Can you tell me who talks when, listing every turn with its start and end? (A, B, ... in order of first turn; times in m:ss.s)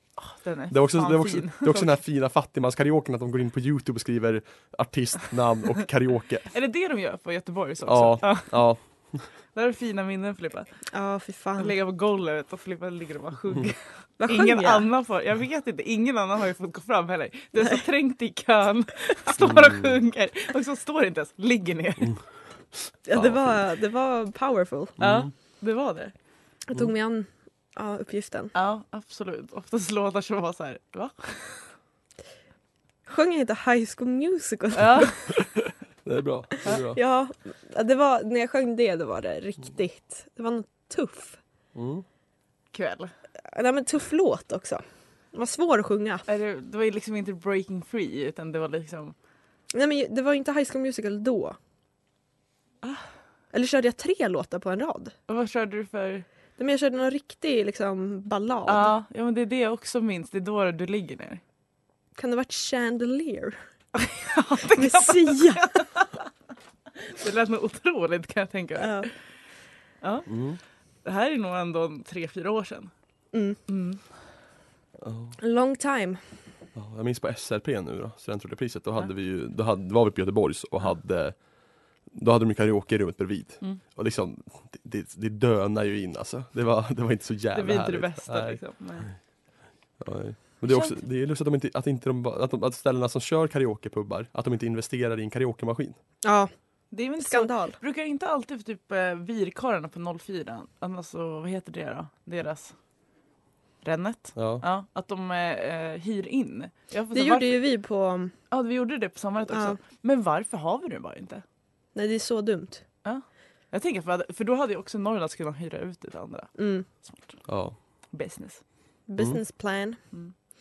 0:00.2-0:02.0 A
0:00.7-0:06.5 B
0:06.5-0:08.6 A
0:07.8-0:09.2 B
0:09.5-0:10.7 A
0:10.9-0:11.8 C
0:11.6-0:22.2 A
0:14.2-0:14.9 C
0:19.4-0:20.0 B
0:23.1-0:25.0 C
0:23.1-0:23.6 B
0:25.0-0:25.3 B
0:25.0-0:26.1 A
0:26.7-0:28.5 C
0:28.5-0:31.7 A
0:33.1-0:35.4 C
0:34.7-0:35.2 A
0:36.0-0:37.0 B
0:36.8-0:41.4 C
0:41.8-0:42.0 B
0:42.7-0:43.1 A
0:43.5-0:46.2 C
0:46.3-0:49.2 A
0:49.7-0:51.6 C
0:53.5-0:55.2 C
0:55.3-0:56.2 A
0:56.6-0:58.9 C
0:58.7-1:01.4 A
1:02.2-1:03.6 C
1:04.1-1:06.2 A
1:04.6-1:05.9 C
1:07.0-1:09.2 A
1:08.8-1:09.1 C
1:10.0-1:10.3 A
1:10.3-1:10.6 B
1:11.0-1:12.9 A
1:13.3-1:13.6 C
1:13.7-1:14.0 A
1:15.0-1:15.4 B
1:15.4-1:16.2 C
1:16.8-1:21.4 B
1:22.1-1:28.6 B
1:27.5-1:29.1 A
1:30.0-1:36.0 B
1:30.7-1:31.0 A
1:36.2-1:36.5 C
1:36.9-1:42.8 A
1:37.2-1:37.8 C
1:43.8-1:47.6 A
1:44.4-1:44.6 B
1:47.1-1:48.4 C
1:48.5-1:51.4 A
1:49.5-1:49.8 C
1:51.9-1:52.8 C
1:53.0-1:57.4 A
1:56.6-1:56.9 C
1:57.5-1:57.8 B
1:58.1-1:58.6 A
1:59.1-2:00.0 C